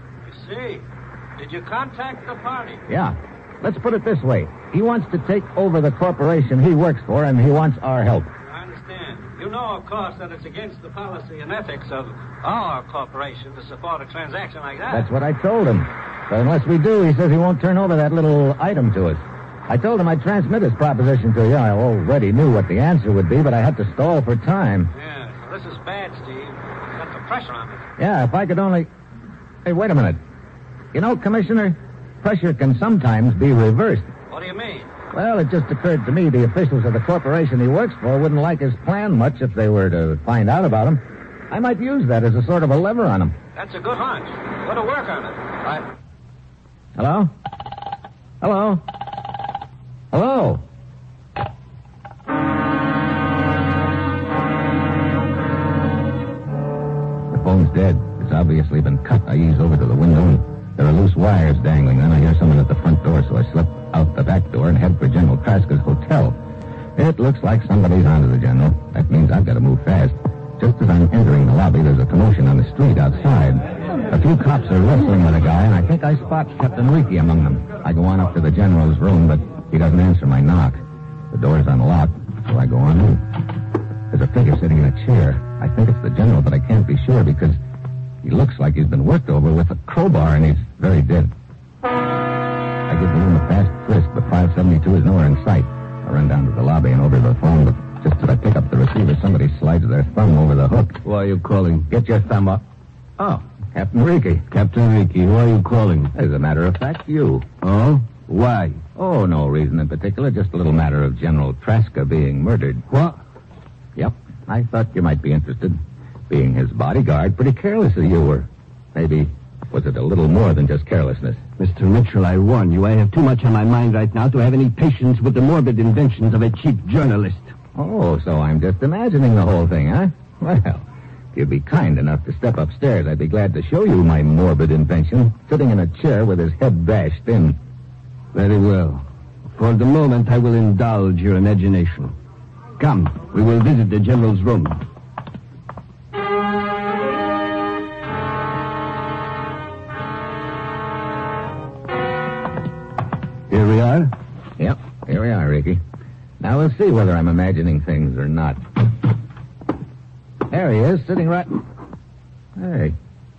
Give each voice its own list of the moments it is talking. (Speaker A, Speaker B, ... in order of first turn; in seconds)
Speaker A: 0.2-0.8, 1.4-2.8, 8.5-15.1, 24.9-27.8, 34.3-34.9, 43.5-45.9
Speaker B: 2.9-8.3, 14.9-24.9, 28.0-28.9, 29.6-30.2, 30.9-34.1, 35.1-43.4, 47.0-47.3, 48.4-48.8, 50.1-50.6, 57.3-66.4, 67.0-80.8, 81.3-83.3, 84.1-87.6, 88.2-91.3, 92.9-101.0, 101.9-102.6, 103.2-104.4, 106.1-107.5, 108.9-112.8, 114.0-121.4, 127.7-137.6, 154.6-155.8, 156.4-158.6, 160.5-161.6, 162.6-162.9
Speaker C: 101.0-101.9, 104.5-106.1, 107.6-108.8, 112.9-113.2, 121.6-127.5, 138.3-142.1, 142.8-144.8, 153.5-154.1